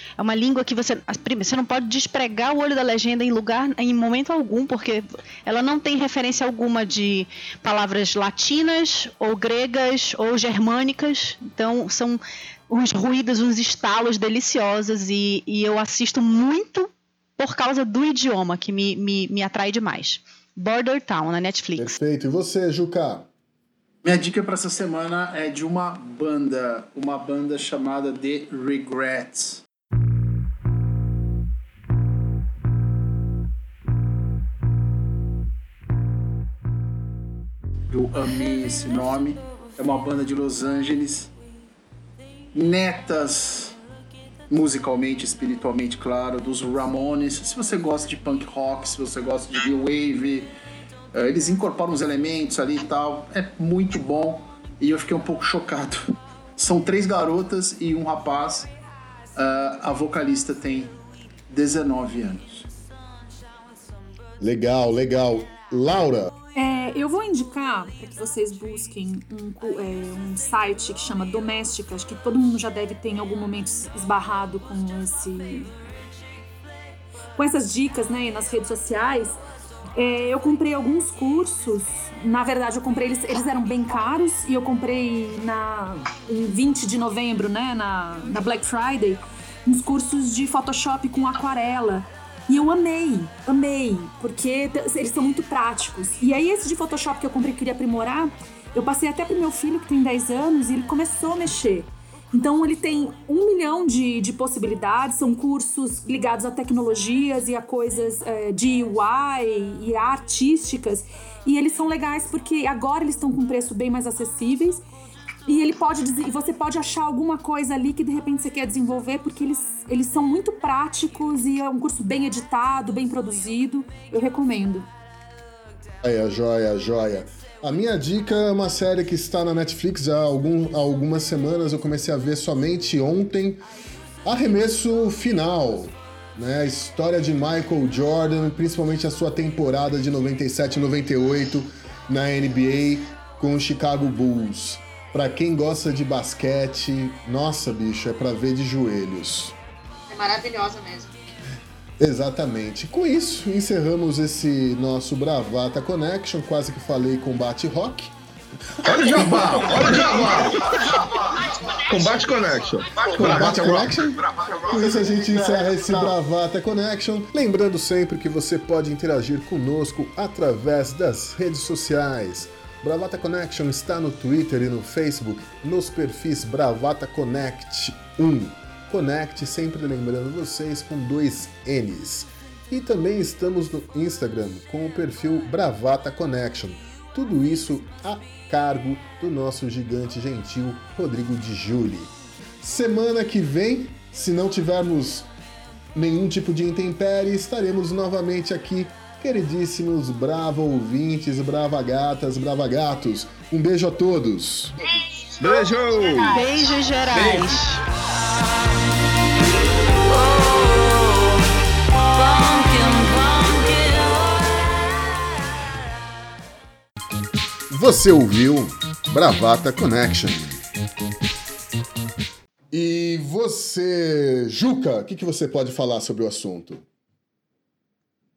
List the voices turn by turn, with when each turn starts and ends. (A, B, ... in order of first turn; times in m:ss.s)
0:00.2-0:21.9 A
0:21.8-0:23.3 B
0:24.0-0:29.6 C
0:37.9-0:41.3 C
0:42.5-0:43.8 C
0:44.5-0:50.5 C
0:51.1-0:56.0 C
0:56.6-0:58.7 C
0:59.3-1:00.9 C
1:01.5-1:02.7 C
1:04.4-1:06.3 B
1:06.5-1:15.7 D
1:17.4-1:19.4 D
1:20.0-1:54.8 D
1:55.5-2:04.9 D
2:06.0-2:13.6 B
2:14.2-2:29.5 B
2:32.0-2:38.1 B
2:38.8-2:39.6 B
2:38.8-2:40.1 C
2:38.8-2:44.6 E
2:43.1-3:15.3 B
2:43.2-2:43.9 C
3:15.9-3:24.7 B
3:25.3-3:27.4 E
3:26.2-3:27.8 A
3:30.5-3:30.8 A
3:32.2-3:34.1 A
3:37.7-3:40.6 B
3:42.7-3:46.8 B